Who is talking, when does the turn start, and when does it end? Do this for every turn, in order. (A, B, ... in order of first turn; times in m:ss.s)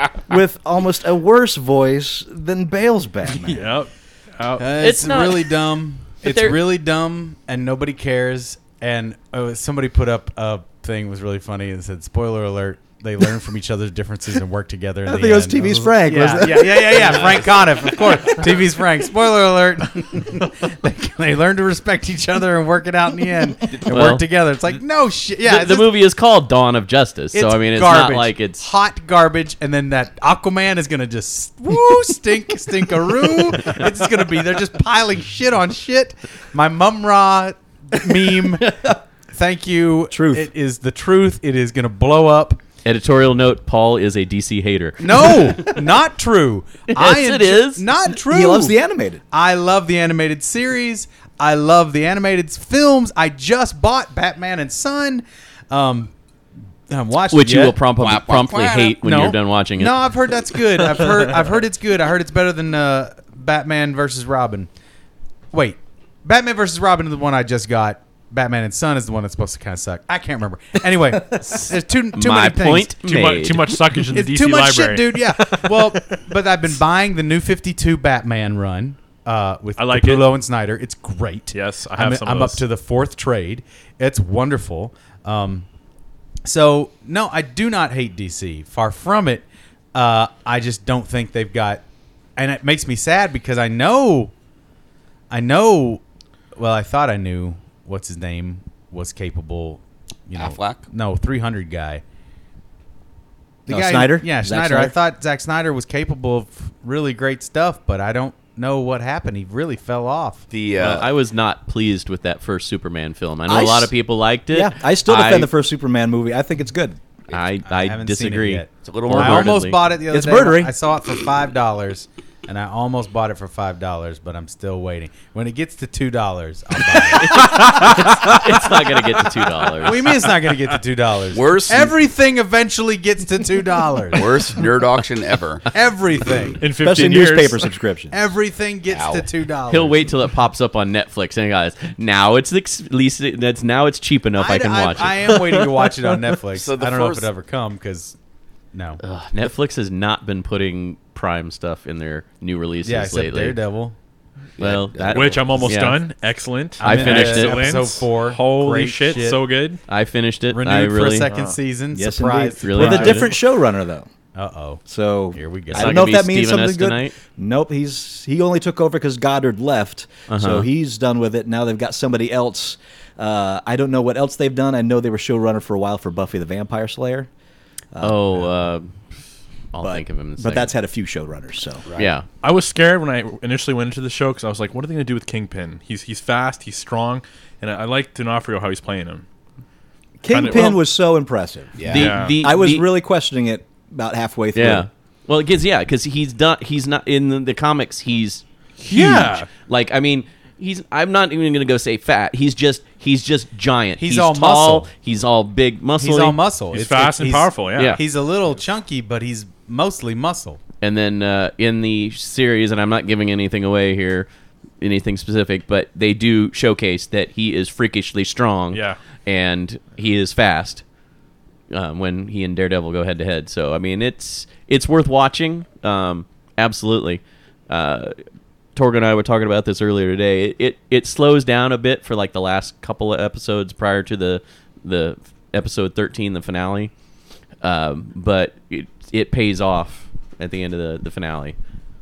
0:00.3-0:03.7 A
0:03.4-0:04.7 B
0:04.6-0:25.9 C
0:04.8-0:05.5 D
0:06.2-0:06.6 D
0:15.0-0:18.5 A
0:17.0-0:17.9 E
0:23.9-0:24.2 D
0:25.4-0:28.6 D
0:27.3-0:42.6 C
0:40.1-0:40.5 A
0:42.8-0:45.7 D
0:45.0-0:48.8 C
0:46.9-0:47.8 D
0:48.1-0:49.2 A
0:49.3-0:56.1 C
0:56.9-0:57.7 C
0:57.3-0:59.9 D
0:58.0-0:59.0 E
0:59.0-1:04.7 C
1:05.5-1:12.9 C
1:12.1-1:13.8 D
1:13.0-1:16.2 B
1:14.1-1:25.7 C
1:19.8-1:20.2 B
1:21.5-1:22.6 B
1:26.4-1:31.8 C
1:32.4-1:34.3 C
1:35.3-1:36.0 C
1:36.6-1:42.0 C
1:40.4-1:40.8 E
1:43.7-1:44.9 A
1:43.7-1:50.4 C
1:50.5-1:51.1 E
1:50.8-1:55.5 D
1:53.5-1:53.9 A
1:54.5-1:57.0 A
1:57.3-1:59.8 D
1:57.6-2:08.3 C
1:58.8-1:59.6 E
2:00.1-2:00.7 A
2:07.2-2:10.0 D
2:09.8-2:14.5 C
2:11.3-2:11.9 E
2:14.1-2:15.7 E
2:15.7-2:16.6 C
2:16.6-2:17.6 B
2:16.8-2:18.2 A
2:18.1-2:20.1 C
2:18.9-2:19.3 E
2:19.7-2:25.1 D
2:24.4-2:28.2 C
2:25.4-2:26.1 B
2:26.5-2:27.3 E
2:28.7-2:29.0 C
2:29.0-2:33.6 D
2:32.8-2:34.0 C
2:34.6-2:35.6 E
2:34.6-2:36.0 D
2:35.1-2:39.8 B
2:36.8-2:39.4 C
2:36.8-2:37.7 D
2:39.9-2:41.3 D
2:40.5-2:43.3 C
2:41.3-2:41.6 B
2:41.9-2:44.1 A
2:42.6-2:43.3 D
2:44.3-2:46.2 C
2:44.9-2:57.3 A
2:45.7-2:47.1 D
2:50.3-2:50.7 D
2:57.9-2:58.6 A
2:58.0-2:58.9 D
2:59.7-3:00.7 D
2:59.8-3:01.8 A
3:02.0-3:02.2 D
3:02.4-3:09.2 B
3:10.2-3:14.9 A
3:10.3-3:10.8 B
3:11.8-3:12.2 E
3:11.9-3:12.8 D
3:11.9-3:12.4 B
3:14.5-3:26.4 D
3:18.8-3:19.5 B
3:18.9-3:19.4 A
3:24.0-3:24.9 C
3:26.0-3:30.6 C
3:26.7-3:28.0 B
3:30.8-3:34.3 D
3:34.8-3:40.8 D
3:38.7-3:39.0 B
3:41.7-3:48.2 D
3:48.7-3:56.9 D
3:57.6-4:01.6 D